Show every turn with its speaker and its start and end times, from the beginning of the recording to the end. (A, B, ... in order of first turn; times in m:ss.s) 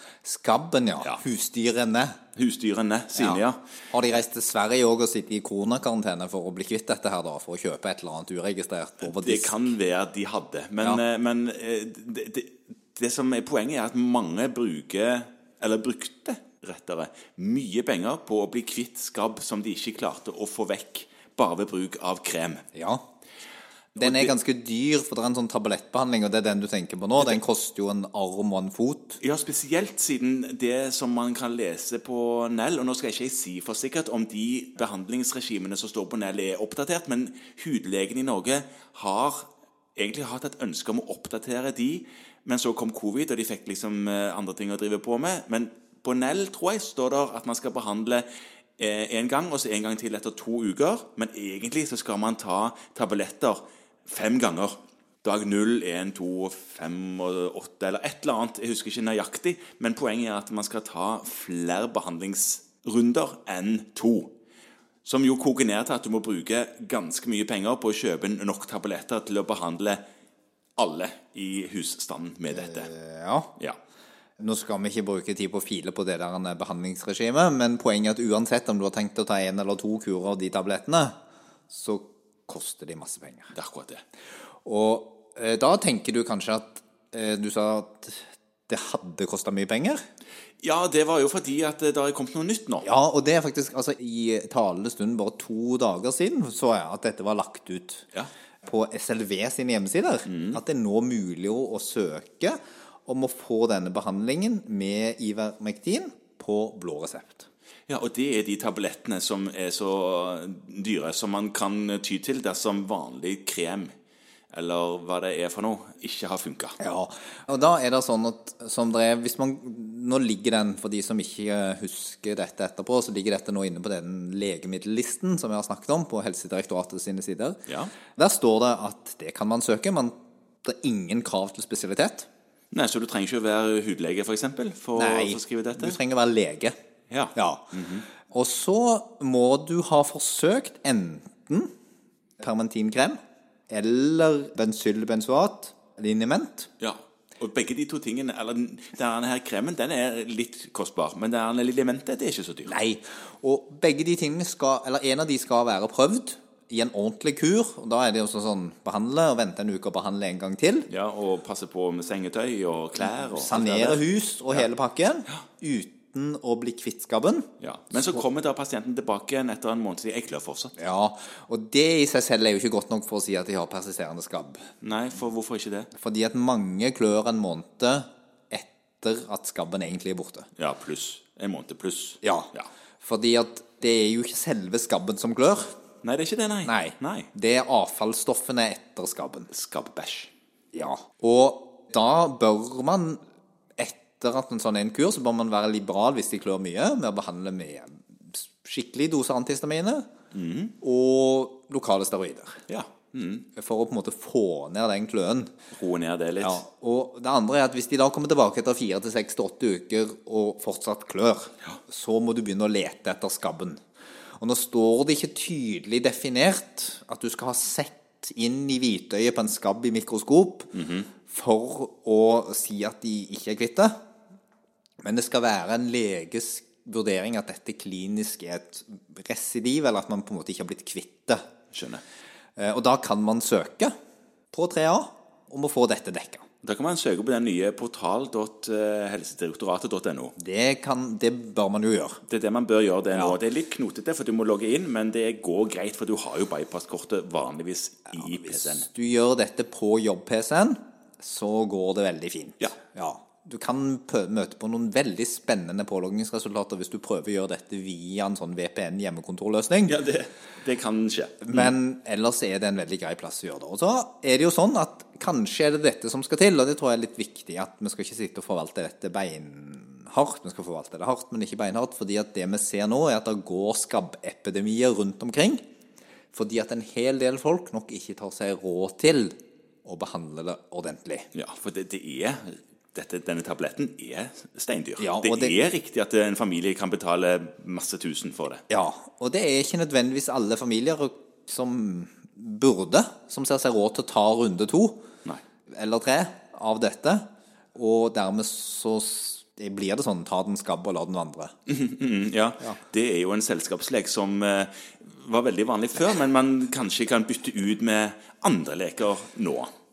0:00.2-0:02.2 A
0:02.4-0:03.6 B
0:03.2-0:09.7 A
0:09.0-0:22.6 B
0:22.7-0:23.0 A
0:23.9-0:24.3 B
0:24.0-0:29.2 A
0:29.2-0:48.2 B
0:48.8-1:04.3 B
1:05.0-1:10.0 B
1:10.8-1:12.9 B
1:12.5-1:13.5 A
1:14.4-1:21.1 A
1:21.7-1:23.5 A
1:23.5-1:24.0 B
1:24.6-1:30.0 A
1:30.6-1:32.9 B
1:32.8-1:38.1 A
1:38.6-1:47.5 A
1:40.3-1:40.6 B
1:47.9-1:53.9 B
1:54.5-1:56.8 B
1:56.8-2:07.6 A
2:07.7-2:07.9 B
2:08.2-2:12.3 A
2:12.7-2:16.0 B
2:15.0-2:16.8 A
2:17.1-2:18.0 B
2:17.3-2:21.7 A
2:22.4-2:23.2 A
2:23.7-2:26.7 A
2:26.8-2:32.8 B
2:32.6-2:40.9 A
2:40.9-2:44.6 B
2:43.0-2:48.2 A
2:47.6-2:50.7 B
2:50.8-2:54.6 A
2:54.8-2:55.9 B
2:55.9-3:00.5 A
3:00.6-3:02.7 B
3:02.2-3:05.7 A
3:06.0-3:07.3 B
3:06.6-3:09.5 A
3:09.5-3:10.3 B
3:10.7-3:13.2 A
3:13.8-3:20.1 A
3:20.3-3:20.8 B
3:20.8-3:22.6 A
3:22.7-3:23.5 B
3:23.6-3:25.5 A
3:25.7-3:26.6 B
3:26.4-3:33.8 A
3:34.4-3:40.7 A
3:40.7-3:41.1 B
3:41.3-3:44.0 A
3:45.0-3:51.4 A
3:51.7-3:52.0 B
3:52.6-3:53.9 A
3:54.5-3:56.4 A
3:56.6-4:00.4 B
4:00.4-4:02.2 A
4:02.3-4:08.9 B
4:08.3-4:20.0 A
4:19.9-4:21.7 B
4:21.4-4:35.6 A
4:36.3-4:41.3 A
4:41.3-4:48.6 B
4:45.0-4:45.6 A
4:48.7-4:55.0 A
4:55.7-5:01.5 A
5:01.7-5:09.7 B